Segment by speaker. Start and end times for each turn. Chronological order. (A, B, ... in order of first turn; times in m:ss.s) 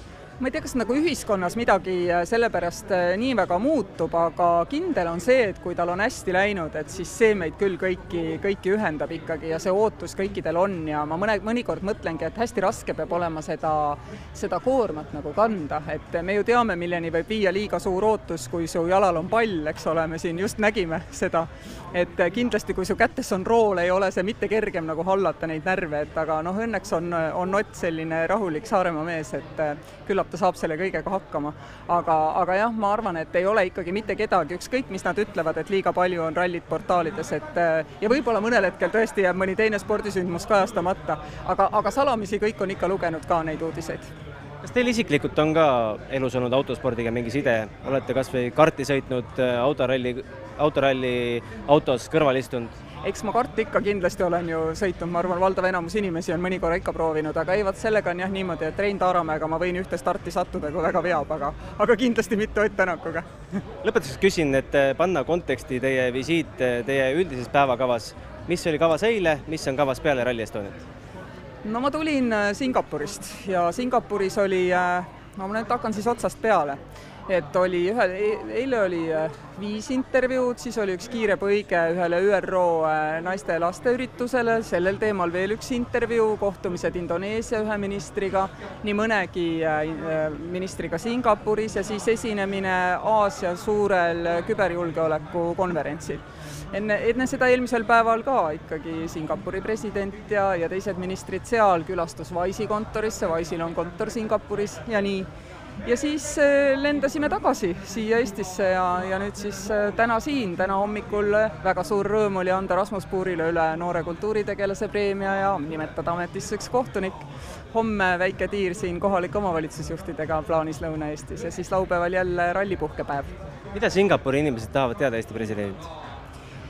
0:00.4-0:44.1 A
0:44.6-0:52.7 B
0:53.0-1:03.3 A
1:03.8-1:10.8 B
1:11.6-1:45.3 A
1:45.8-2:03.3 A
2:03.8-2:05.9 B